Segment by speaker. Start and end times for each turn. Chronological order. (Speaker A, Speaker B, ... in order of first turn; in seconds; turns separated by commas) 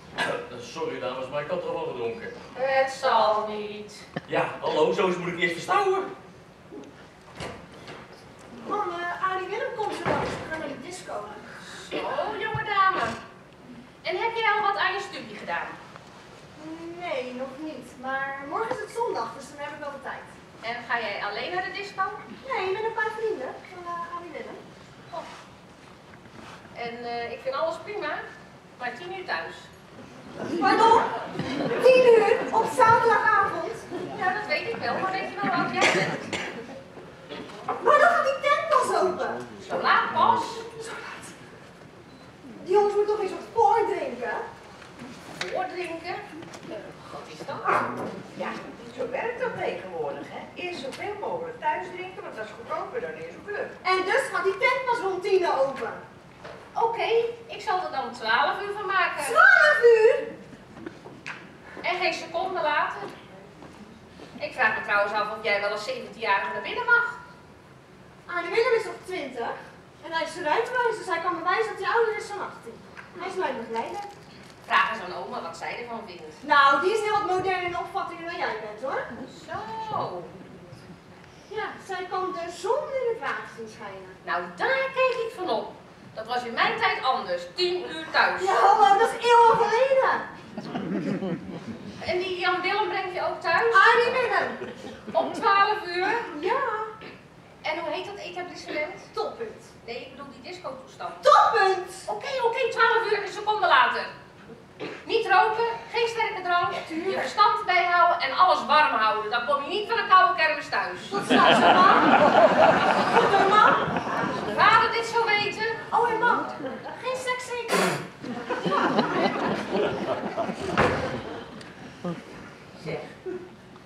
Speaker A: 0.2-2.4, Speaker B: 2.5-4.0, Speaker A: 4.2-6.1, Speaker C: 8.6-11.5, Speaker B: 11.6-13.2, Speaker B: 14.0-15.8, Speaker C: 16.6-20.3, Speaker B: 20.6-22.2, Speaker C: 22.4-24.6, Speaker B: 26.7-28.2, Speaker B: 28.8-29.7, Speaker C: 30.5-31.1, Speaker C: 31.6-33.8, Speaker B: 34.1-36.2, Speaker C: 37.8-39.4, Speaker B: 39.6-40.6, Speaker C: 42.6-44.4, Speaker B: 45.4-46.2, Speaker B: 47.0-47.8, Speaker D: 48.3-53.7, Speaker C: 53.8-56.0, Speaker B: 56.7-59.4, Speaker C: 59.2-60.3, Speaker B: 61.8-63.1, Speaker B: 64.4-67.2, Speaker C: 68.3-74.1, Speaker B: 74.6-76.4, Speaker C: 76.4-79.1, Speaker B: 79.3-80.3, Speaker C: 81.5-84.2, Speaker B: 84.2-88.5, Speaker C: 88.4-90.3, Speaker B: 92.0-94.0, Speaker C: 93.7-94.6, Speaker B: 95.1-96.3, Speaker C: 96.3-96.9, Speaker B: 97.6-99.1, Speaker C: 99.1-99.7, Speaker B: 99.8-101.2, Speaker C: 101.2-102.0, Speaker B: 102.0-104.1, Speaker B: 105.0-111.2, Speaker C: 106.9-107.3, Speaker C: 111.1-112.1, Speaker C: 113.0-113.9, Speaker B: 114.4-115.8, Speaker C: 115.9-118.0, Speaker C: 118.6-119.1, Speaker D: 122.7-123.1